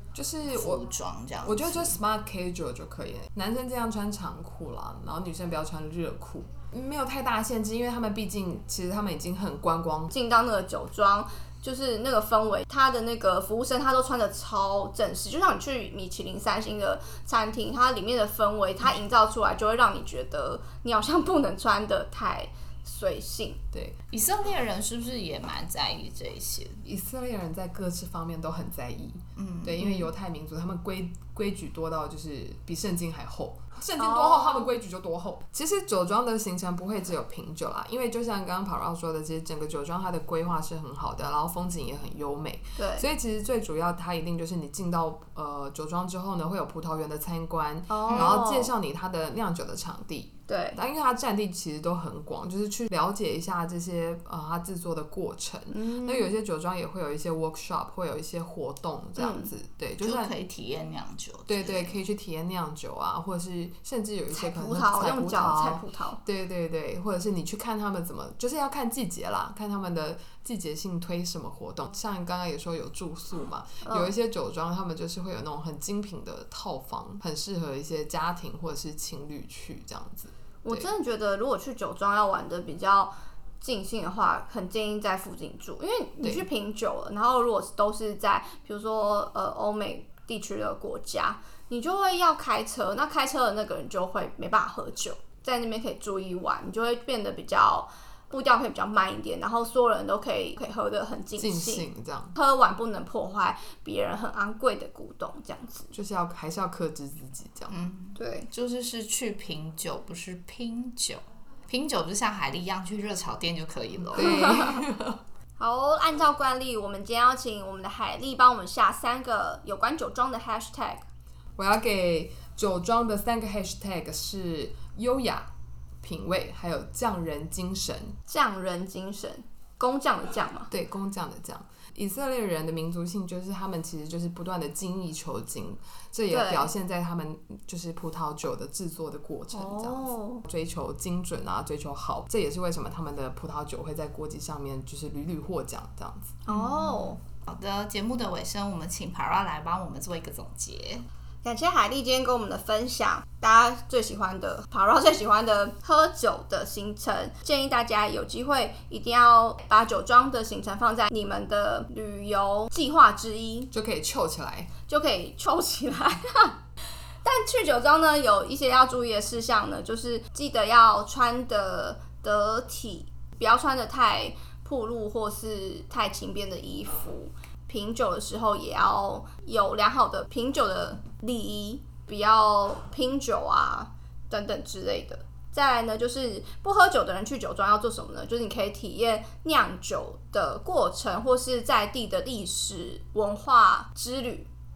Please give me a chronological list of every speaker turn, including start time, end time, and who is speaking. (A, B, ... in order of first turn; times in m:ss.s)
0:00.1-0:00.8 A
0:00.5-0:02.0 B
0:01.4-0:10.1 A
0:10.1-0:23.6 C
0:24.1-0:26.8 B
0:26.8-1:00.3 A
0:29.4-0:29.8 B
0:34.0-0:34.7 C
0:42.8-0:43.0 C
0:47.9-0:48.7 C
0:48.1-0:48.4 B
0:50.5-0:50.8 C
0:55.7-0:56.3 C
0:59.2-0:59.5 C
1:00.0-1:02.0 B
1:01.5-1:20.9 A
1:04.3-1:06.2 C
1:13.8-1:14.1 C
1:20.6-1:45.9 C
1:41.4-1:42.4 A
1:45.9-1:47.8 A
1:47.7-1:54.5 B
1:48.2-1:48.5 C
1:54.1-1:55.2 A
1:54.2-1:54.8 C
1:55.6-2:01.0 C
2:01.6-2:05.5 A
2:06.0-2:08.2 A
2:08.3-2:10.7 C
2:10.7-2:26.4 A
2:16.3-2:16.7 C
2:19.5-2:20.4 C
2:26.5-2:27.2 C
2:26.5-2:31.0 B
2:31.4-2:43.7 C
2:43.7-2:44.7 A
2:44.9-2:46.6 C
2:47.2-3:14.5 C